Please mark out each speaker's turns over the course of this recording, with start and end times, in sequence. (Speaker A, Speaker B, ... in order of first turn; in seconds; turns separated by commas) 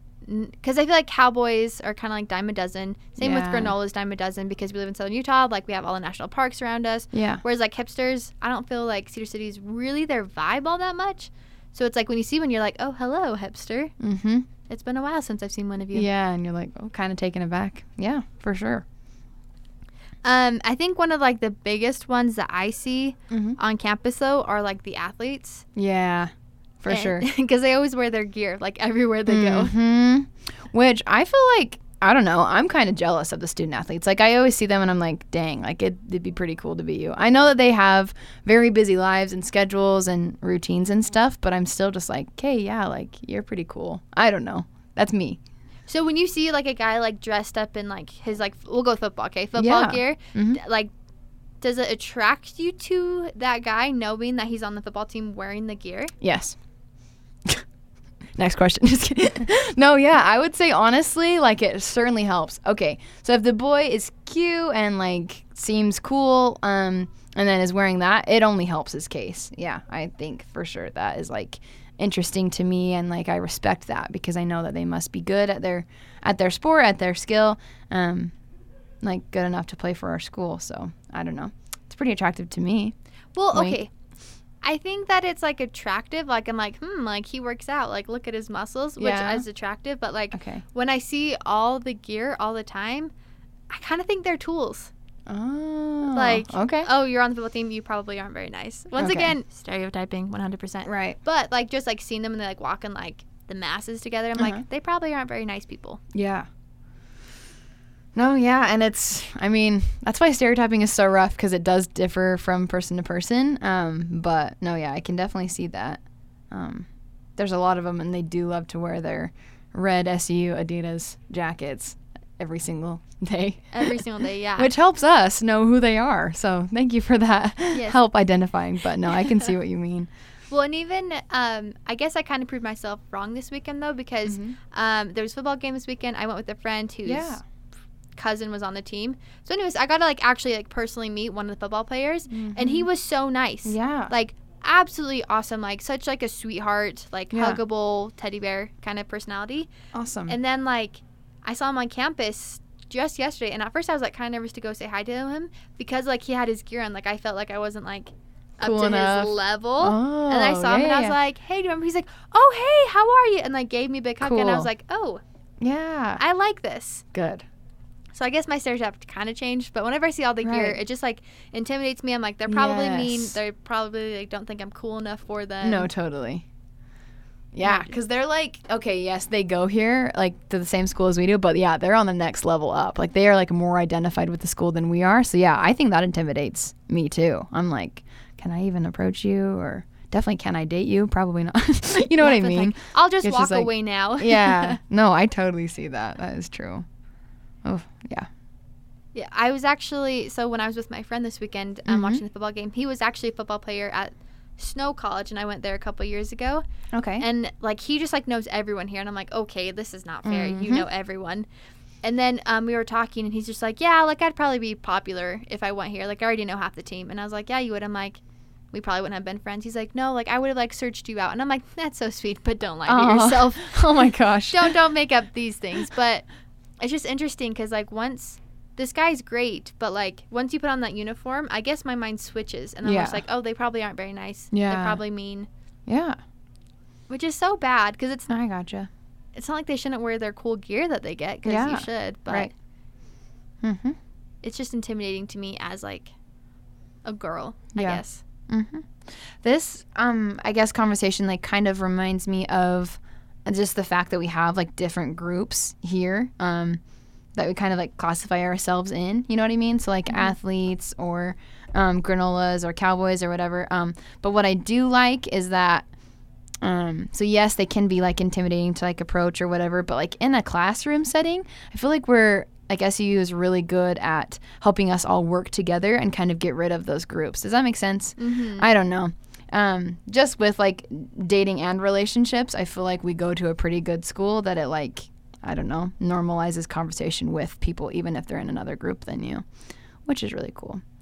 Speaker A: 0.2-13.9, Speaker B: 3.2-3.8, Speaker B: 7.1-7.4, Speaker B: 14.0-14.5, Speaker A: 14.6-16.1, Speaker B: 15.9-18.9, Speaker A: 20.2-25.6, Speaker B: 23.3-23.6, Speaker B: 25.8-26.3, Speaker B: 26.8-27.2, Speaker A: 26.9-29.7, Speaker B: 29.3-45.4, Speaker A: 45.9-50.9, Speaker B: 49.6-50.6, Speaker A: 51.6-56.1, Speaker B: 56.2-56.6, Speaker B: 58.4-78.3, Speaker B: 79.0-83.0, Speaker A: 83.3-83.9, Speaker A: 84.6-93.1, Speaker B: 89.0-89.5, Speaker B: 90.3-90.6, Speaker A: 93.7-94.9, Speaker B: 95.3-96.9, Speaker A: 96.1-106.0, Speaker B: 99.0-99.3, Speaker B: 100.8-101.2, Speaker B: 104.4-104.6, Speaker B: 106.1-106.5, Speaker B: 108.1-124.0, Speaker A: 123.7-124.7, Speaker B: 124.6-130.1, Speaker A: 127.7-128.0, Speaker A: 130.5-137.4, Speaker B: 134.2-134.6, Speaker B: 137.1-137.4, Speaker A: 138.2-149.7, Speaker B: 142.3-142.9, Speaker B: 143.6-144.1, Speaker B: 147.3-147.6, Speaker B: 149.9-150.4, Speaker A: 150.3-165.2, Speaker B: 158.6-161.2, Speaker B: 164.2-164.7, Speaker B: 165.6-166.2, Speaker A: 166.2-167.0, Speaker B: 167.1-167.4, Speaker A: 168.1-175.9, Speaker B: 170.4-170.8, Speaker B: 172.5-173.4, Speaker B: 175.6-176.4, Speaker B: 177.5-196.9, Speaker A: 177.6-177.9, Speaker A: 192.2-194.8, Speaker B: 197.6-198.3, Speaker A: 199.1-206.6, Speaker B: 201.9-202.2, Speaker B: 206.9-207.2, Speaker A: 207.2-211.5, Speaker B: 210.2-210.9, Speaker A: 212.0-218.2, Speaker A: 218.7-226.2, Speaker B: 222.9-224.8, Speaker A: 226.8-235.5, Speaker B: 232.8-233.2, Speaker B: 234.5-235.0, Speaker B: 235.9-236.2, Speaker A: 237.1-238.3, Speaker B: 238.3-238.9, Speaker A: 239.3-242.5, Speaker B: 241.4-242.5, Speaker B: 243.6-244.0, Speaker A: 244.4-246.1, Speaker A: 247.1-248.2, Speaker B: 247.8-256.8, Speaker B: 257.4-265.9, Speaker A: 260.1-260.4, Speaker B: 266.6-289.4, Speaker A: 278.2-278.7, Speaker B: 290.1-290.8